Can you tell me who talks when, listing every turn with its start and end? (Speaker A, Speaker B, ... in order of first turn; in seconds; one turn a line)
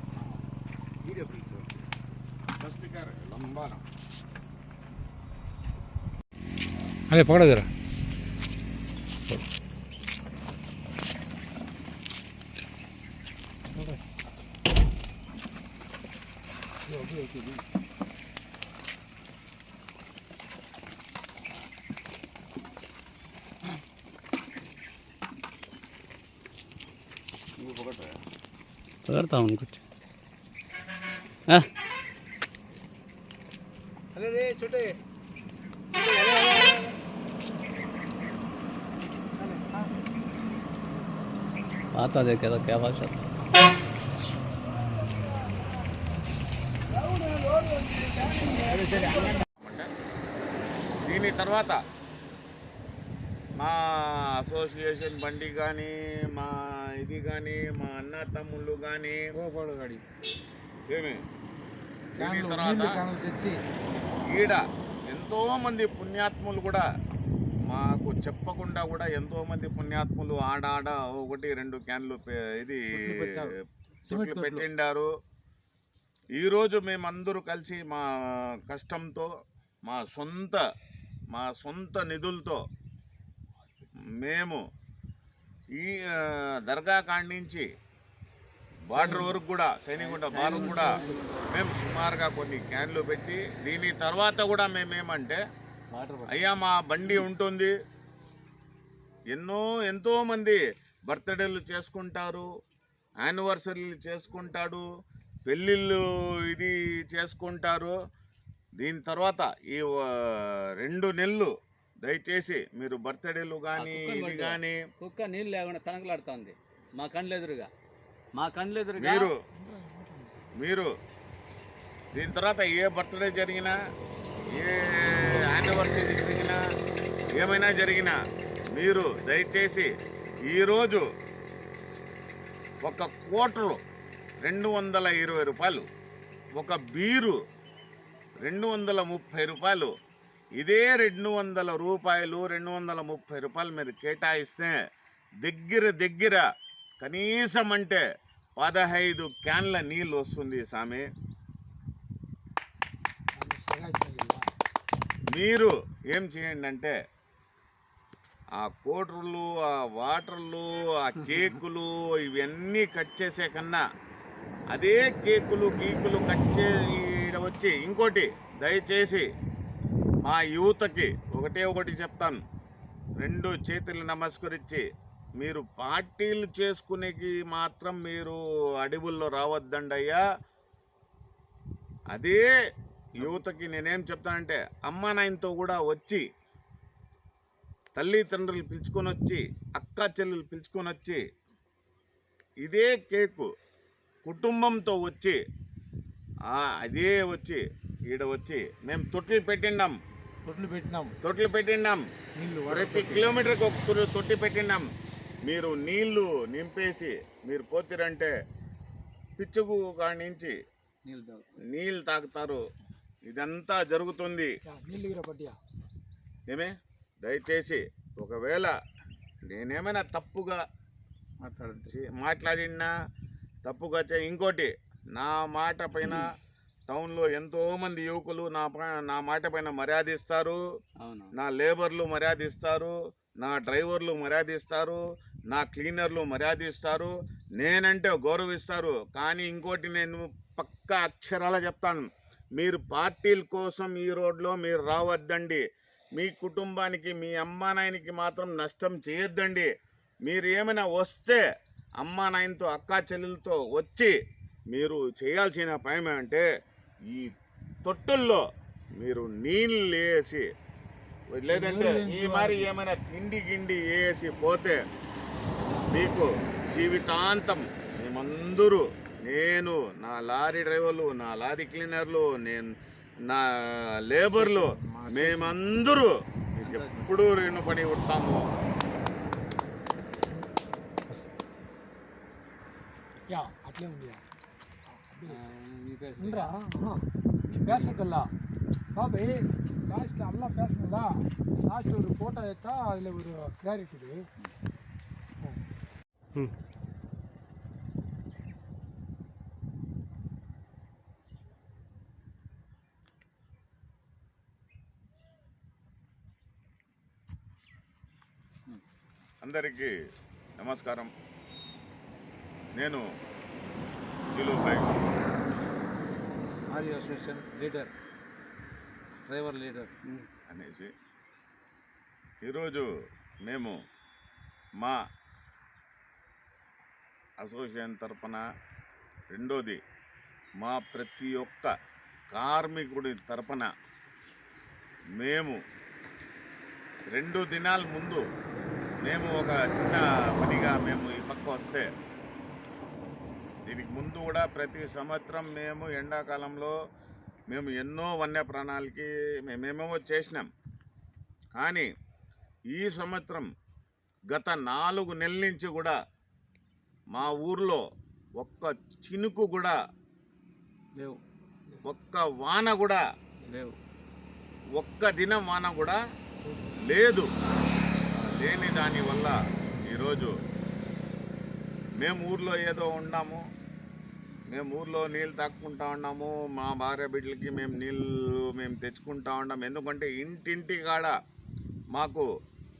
Speaker A: 1.1-1.5
Speaker B: 2.6-3.8
Speaker A: 7.1-7.7
Speaker C: 16.9-17.3
Speaker A: 27.6-28.1
Speaker D: 29.1-29.8
Speaker A: 34.1-34.9
Speaker A: 36.0-36.9
Speaker A: 39.4-39.9
Speaker D: 41.9-43.2
Speaker B: 49.1-49.9
Speaker B: 51.0-51.8
Speaker B: 53.6-59.2
Speaker A: 59.3-60.0
Speaker B: 60.9-61.2
Speaker B: 62.2-63.0
Speaker A: 62.2-63.6
Speaker B: 64.3-66.8
Speaker B: 67.7-73.0
Speaker A: 72.9-73.5
Speaker B: 74.0-75.1
Speaker A: 74.1-74.7
Speaker B: 76.4-79.3
Speaker B: 79.8-80.6
Speaker B: 81.3-82.6
Speaker B: 84.2-84.6
Speaker B: 85.8-87.7
Speaker B: 88.9-91.0
Speaker A: 89.0-89.2
Speaker D: 90.0-90.8
Speaker A: 90.4-91.3
Speaker B: 91.5-95.4
Speaker D: 95.9-96.3
Speaker B: 96.3-97.7
Speaker B: 99.3-102.5
Speaker B: 103.2-104.8
Speaker B: 105.5-107.9
Speaker B: 108.8-114.8
Speaker D: 113.7-117.7
Speaker D: 118.3-119.3
Speaker B: 119.0-119.3
Speaker C: 119.5-120.4
Speaker B: 120.6-120.9
Speaker B: 122.1-123.8
Speaker B: 124.5-126.6
Speaker B: 127.3-128.2
Speaker B: 128.7-129.9
Speaker B: 130.5-131.0
Speaker B: 132.8-133.8
Speaker B: 134.4-135.8
Speaker B: 136.6-137.4
Speaker B: 138.4-139.9
Speaker B: 140.6-144.7
Speaker B: 145.4-146.4
Speaker B: 147.0-148.0
Speaker B: 148.6-151.1
Speaker C: 153.3-154.4
Speaker B: 155.3-156.9
Speaker B: 158.6-163.8
Speaker B: 164.7-169.2
Speaker B: 170.2-172.4
Speaker B: 173.2-174.8
Speaker B: 175.4-180.2
Speaker B: 182.1-182.5
Speaker B: 183.2-186.2
Speaker B: 187.9-191.2
Speaker B: 192.6-193.5
Speaker B: 194.2-195.4
Speaker B: 196.5-199.9
Speaker A: 200.4-201.1
Speaker B: 201.2-202.0
Speaker A: 202.3-203.3
Speaker B: 202.7-204.9
Speaker B: 205.4-208.3
Speaker B: 209.4-210.5
Speaker A: 211.1-211.4
Speaker B: 211.7-212.6
Speaker B: 213.3-214.5
Speaker C: 214.6-215.6
Speaker B: 217.2-218.7
Speaker B: 219.5-220.6
Speaker A: 221.4-221.9
Speaker B: 221.9-222.9
Speaker B: 223.6-226.3
Speaker B: 226.9-230.6
Speaker D: 231.0-231.3
Speaker B: 231.3-245.6
Speaker B: 246.2-249.7
Speaker B: 250.3-251.4
Speaker B: 252.0-254.1
Speaker B: 254.7-256.4
Speaker B: 257.8-258.4
Speaker B: 259.0-260.5
Speaker B: 261.3-264.8
Speaker A: 261.5-262.7
Speaker B: 265.9-272.7
Speaker B: 273.2-278.4
Speaker A: 274.3-275.6
Speaker D: 276.6-277.1
Speaker C: 283.3-284.2
Speaker C: 285.0-285.4
Speaker D: 285.3-286.5
Speaker C: 286.2-287.0
Speaker C: 287.6-288.3
Speaker D: 287.7-288.0
Speaker C: 288.9-294.2
Speaker B: 309.4-309.9
Speaker B: 310.6-311.1
Speaker B: 312.8-313.0
Speaker B: 314.3-314.9
Speaker A: 316.7-317.9
Speaker A: 319.2-319.9
Speaker B: 320.5-320.9
Speaker B: 322.4-322.9
Speaker B: 323.4-323.8
Speaker B: 327.4-328.4
Speaker B: 329.3-329.8
Speaker B: 330.6-331.7
Speaker B: 332.3-333.7
Speaker B: 335.2-335.6
Speaker B: 337.1-338.2
Speaker B: 339.0-341.9
Speaker B: 343.6-346.7
Speaker B: 347.5-350.5
Speaker B: 351.6-351.9
Speaker B: 352.7-353.5
Speaker B: 354.3-355.9
Speaker B: 357.1-357.8
Speaker B: 358.4-359.8
Speaker A: 360.9-361.2
Speaker B: 361.8-363.0
Speaker A: 363.5-363.7
Speaker B: 364.8-366.0
Speaker C: 366.4-366.7
Speaker B: 366.8-367.3
Speaker B: 368.2-369.3
Speaker B: 369.9-370.3
Speaker B: 372.0-373.4
Speaker B: 374.5-381.1
Speaker B: 381.9-382.3